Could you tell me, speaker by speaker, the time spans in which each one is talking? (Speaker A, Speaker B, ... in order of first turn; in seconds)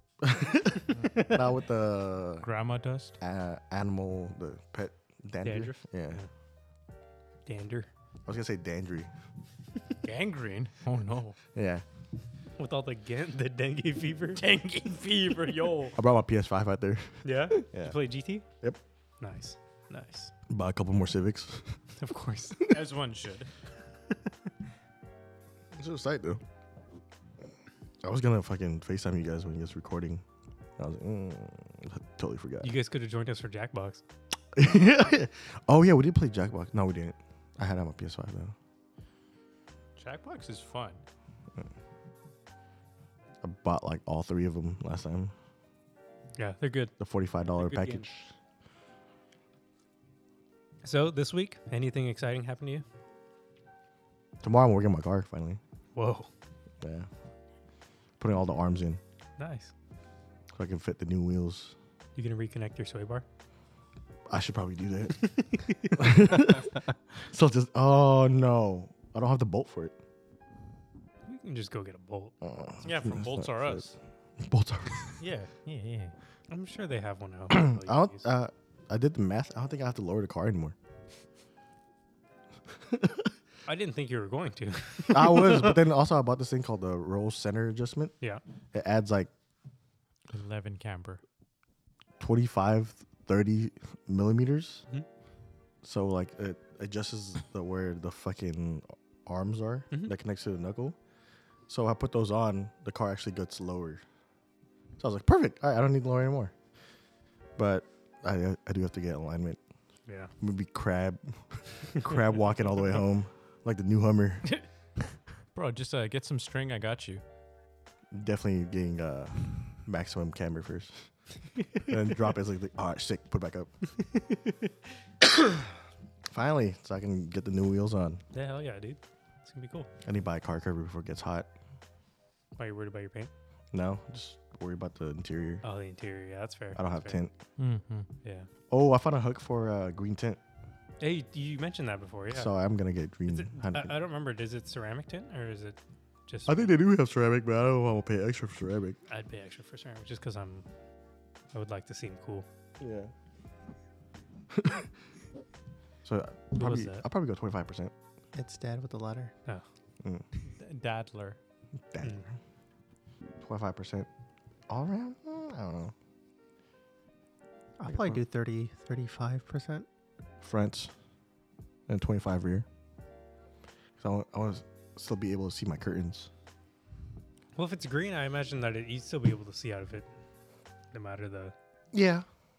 Speaker A: 0.2-2.5, 3.2-6.2, 8.3-9.1, 11.5-11.8, 15.9-18.0, 20.5-21.7, 25.8-26.4, 28.0-30.2, 30.8-32.8, 34.5-38.5, 43.4-45.3, 47.0-48.3, 54.4-55.6, 56.8-57.1, 58.2-59.0, 60.5-61.8, 64.3-65.2, 65.9-69.9, 72.4-73.8, 74.4-75.2, 77.5-80.8, 82.9-83.3, 85.1-88.2, 88.7-89.3, 92.2-94.8, 95.8-101.0, 101.7-104.0, 105.0-106.5, 107.6-109.6, 110.4-114.5, 118.1-121.0, 121.9-123.7, 126.3-128.2, 130.1-131.5, 133.7-135.6, 136.8-137.3, 138.7-140.4, 142.3-143.9, 146.5-149.0, 152.8-153.1, 154.5-154.9, 156.0-157.9, 161.9-162.3, 163.4-164.1, 164.7-165.9, 167.8-168.2, 170.4-170.9, 171.9-172.7, 174.0-176.3, 181.9-182.3
Speaker B: 1.0-1.4, 5.4-6.3, 7.5-7.9, 12.6-14.4, 17.2-18.4, 19.2-20.3, 22.0-22.6, 32.6-34.0, 46.4-46.9, 47.5-48.1, 50.8-52.8, 56.0-56.3, 59.4-59.7, 62.1-63.2, 65.2-66.0, 71.3-72.3, 76.5-78.3, 83.7-85.8, 128.3-129.9, 132.6-133.3, 135.6-137.2, 141.0-142.5, 143.3-146.7, 149.1-150.7, 151.5-152.5, 156.6-157.1, 177.6-180.1, 180.9-181.5
Speaker C: 2.4-3.2, 10.0-11.4, 14.4-16.0, 22.7-23.5, 40.0-41.0, 72.8-74.0, 75.2-76.2, 90.3-91.2, 115.5-117.2, 137.6-138.1, 160.6-161.4
Speaker D: 158.3-159.3, 167.8-169.9